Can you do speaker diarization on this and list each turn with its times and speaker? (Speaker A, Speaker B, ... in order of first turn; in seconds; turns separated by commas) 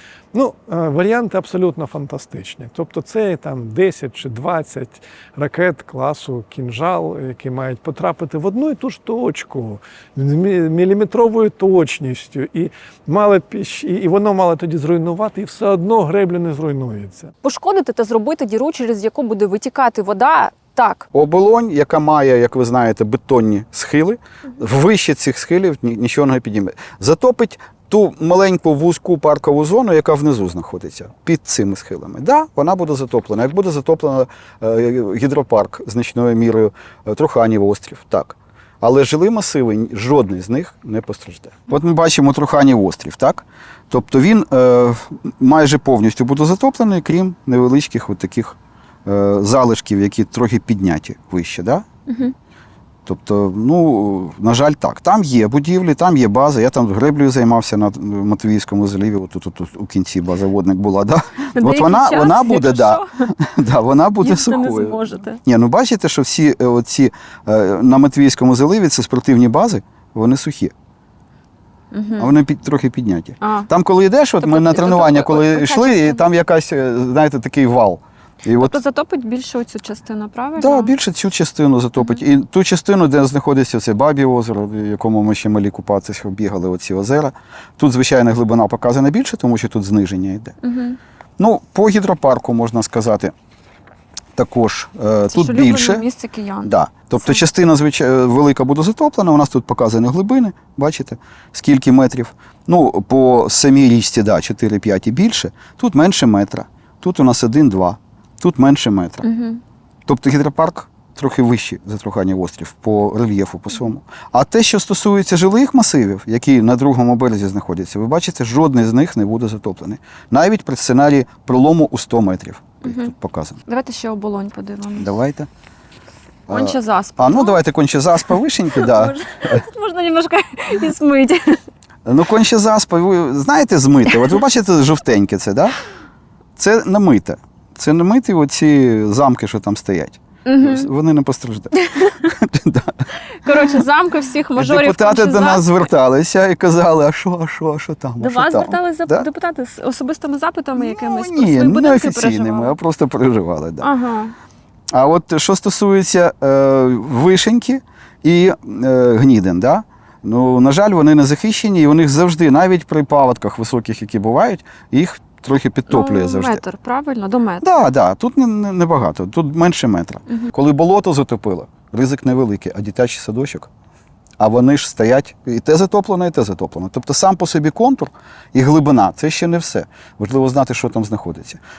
Speaker A: 0.3-17.3, Speaker B: 17.4-21.1, Speaker C: 21.1-51.9, Speaker B: 52.1-52.3, Speaker C: 53.1-70.7, Speaker B: 61.5-63.3, Speaker B: 64.2-65.4, Speaker B: 71.9-72.4, Speaker C: 72.2-78.8, Speaker B: 73.4-73.7, Speaker B: 74.4-76.3, Speaker B: 78.6-81.0, Speaker C: 80.6-90.5, Speaker B: 90.6-91.0, Speaker C: 91.4-93.3, Speaker C: 94.4-96.0, Speaker B: 95.3-97.4, Speaker C: 96.6-109.3, Speaker B: 109.2-109.6, Speaker C: 110.1-123.6, Speaker B: 122.8-123.1, Speaker B: 123.7-125.2, Speaker C: 125.0-125.5, Speaker C: 126.5-129.6, Speaker B: 126.5-127.6, Speaker B: 128.3-131.6, Speaker C: 132.1-135.8, Speaker C: 136.6-143.8, Speaker B: 140.5-140.9, Speaker B: 141.8-142.3, Speaker B: 143.4-145.8, Speaker C: 144.6-149.3, Speaker B: 148.2-152.8, Speaker C: 150.8-153.9, Speaker B: 153.8-154.3, Speaker C: 154.9-166.6, Speaker B: 165.9-167.7, Speaker C: 167.6-173.7, Speaker B: 170.3-170.5, Speaker C: 174.4-181.6